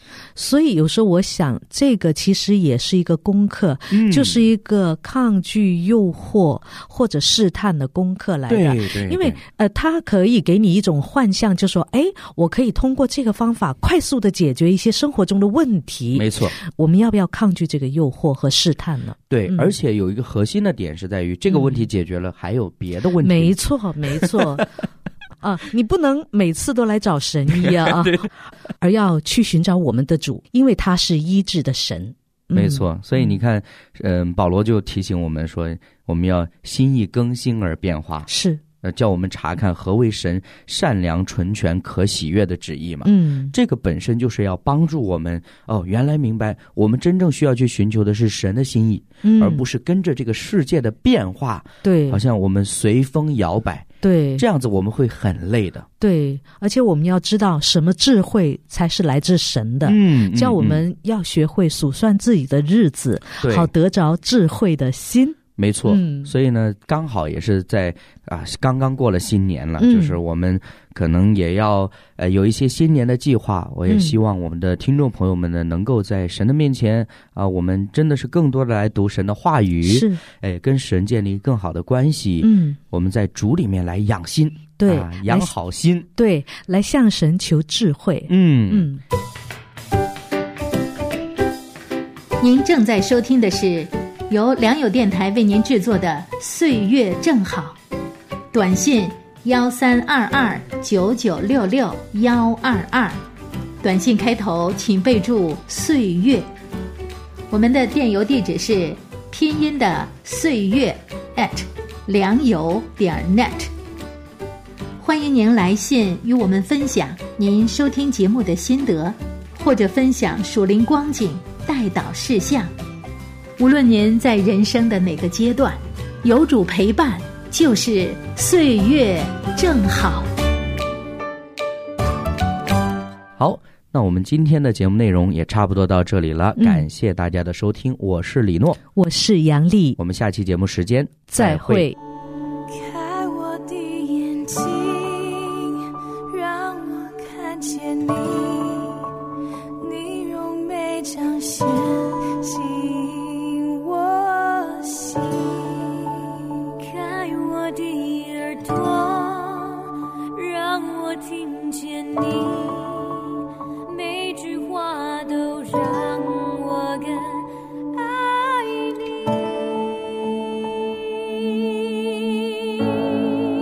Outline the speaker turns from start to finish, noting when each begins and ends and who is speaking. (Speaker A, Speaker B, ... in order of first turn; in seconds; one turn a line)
Speaker A: 0.3-19.7
Speaker B: 3.9-4.5
Speaker B: 8.5-9.4
Speaker B: 16.1-16.5
Speaker B: 19.3-24.6
Speaker A: 21.5-21.8
Speaker A: 23.2-24.7
Speaker A: 25.4-33.3
Speaker B: 27.5-28.2
Speaker B: 32.5-38.3
Speaker A: 38.3-38.6
Speaker B: 38.8-53.9
Speaker A: 43.0-43.5
Speaker A: 49.2-49.6
Speaker A: 51.8-52.2
Speaker A: 54.0-54.4
Speaker B: 54.4-55.9
Speaker A: 56.0-66.3
Speaker B: 59.8-60.8
Speaker B: 63.4-63.7
Speaker B: 65.6-86.1
Speaker A: 69.8-70.2
Speaker A: 73.9-74.1
Speaker A: 79.8-80.2
Speaker A: 82.4-82.8
Speaker A: 84.8-85.5
Speaker A: 86.2-89.0
Speaker B: 88.3-88.9
Speaker C: 92.4-97.8
Speaker C: 98.5-103.2
Speaker C: 103.8-106.5
Speaker C: 107.5-113.7
Speaker C: 115.0-122.7
Speaker C: 123.6-130.3
Speaker B: 133.4-138.8
Speaker A: 136.6-136.9
Speaker A: 138.9-140.0
Speaker B: 140.0-141.9
Speaker A: 141.3-142.0
Speaker D: 142.7-149.1
Speaker D: 149.8-169.1
Speaker D: 171.7-172.9